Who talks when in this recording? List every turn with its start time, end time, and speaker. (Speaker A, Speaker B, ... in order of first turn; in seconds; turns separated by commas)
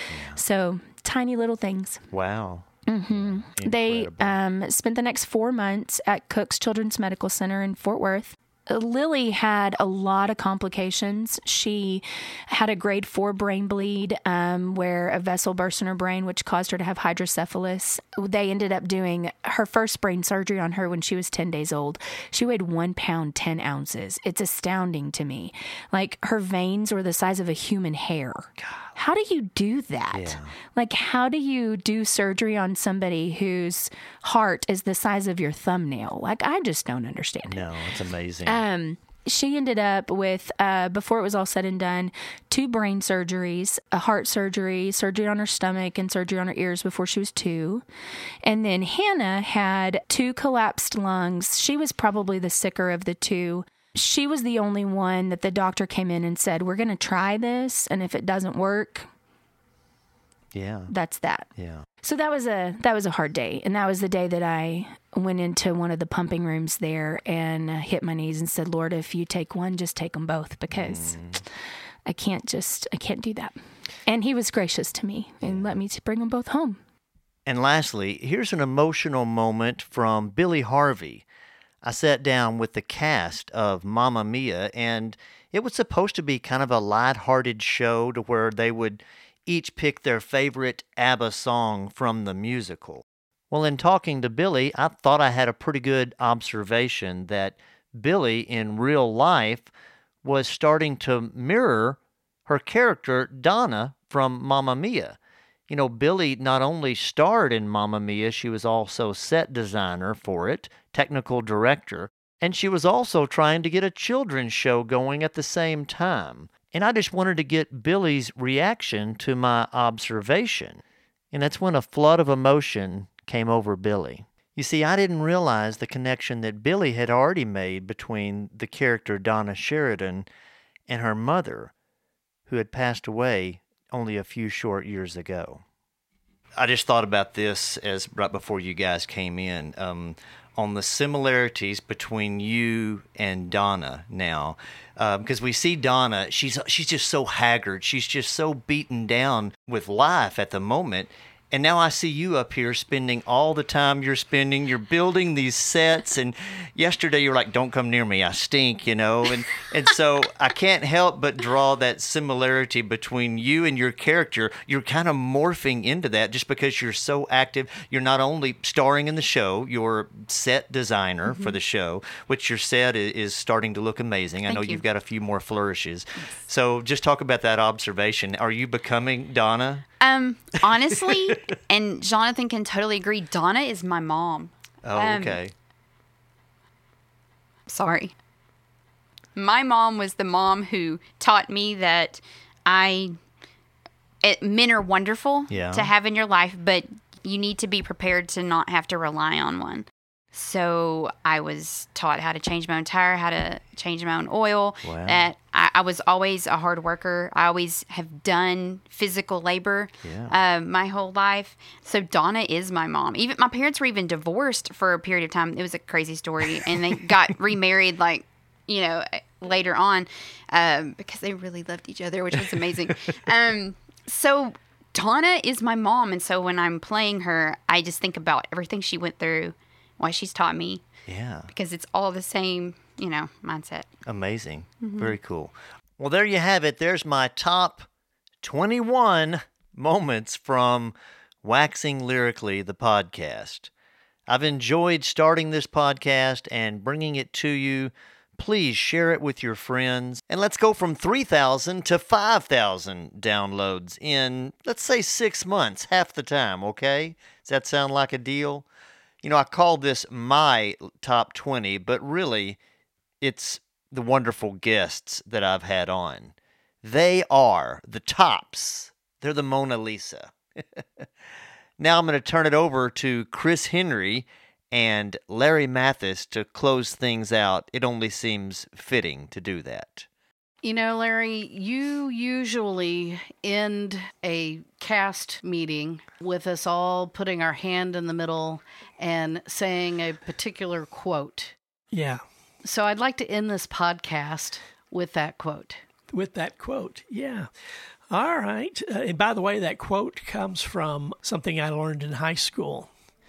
Speaker A: 0.1-0.4, Speaker B: 0.3-2.0, Speaker A: 2.1-4.4, Speaker B: 2.9-37.6, Speaker A: 28.6-28.9, Speaker A: 30.1-30.5, Speaker A: 37.5-38.6, Speaker B: 38.5-47.8, Speaker B: 48.4-59.1, Speaker A: 60.5-60.9, Speaker B: 60.9-61.5, Speaker A: 61.5-61.9, Speaker B: 62.0-71.2, Speaker A: 70.7-71.4, Speaker B: 72.0-73.5, Speaker B: 74.1-76.8, Speaker A: 75.4-75.8, Speaker A: 77.5-81.2, Speaker A: 81.8-99.7, Speaker A: 100.2-105.2, Speaker A: 105.7-130.3, Speaker A: 130.9-131.7, Speaker A: 132.5-135.6, Speaker A: 136.6-179.8, Speaker C: 174.4-174.8, Speaker C: 180.0-185.2, Speaker A: 180.8-181.5, Speaker A: 184.8-185.5, Speaker C: 187.7-188.1, Speaker C: 189.3-193.1, Speaker C: 194.2-230.8, Speaker A: 195.5-195.9, Speaker A: 204.8-205.3, Speaker A: 210.0-210.4, Speaker A: 231.1-231.5, Speaker C: 231.5-233.9, Speaker A: 234.1-237.9, Speaker A: 238.4-243.7, Speaker A: 244.3-258.6, Speaker A: 259.2-262.6, Speaker A: 263.2-270.8, Speaker A: 271.8-280.1, Speaker D: 280.6-291.5, Speaker E: 291.9-292.2, Speaker D: 292.6-295.8, Speaker E: 296.1-297.5, Speaker E: 298.1-302.9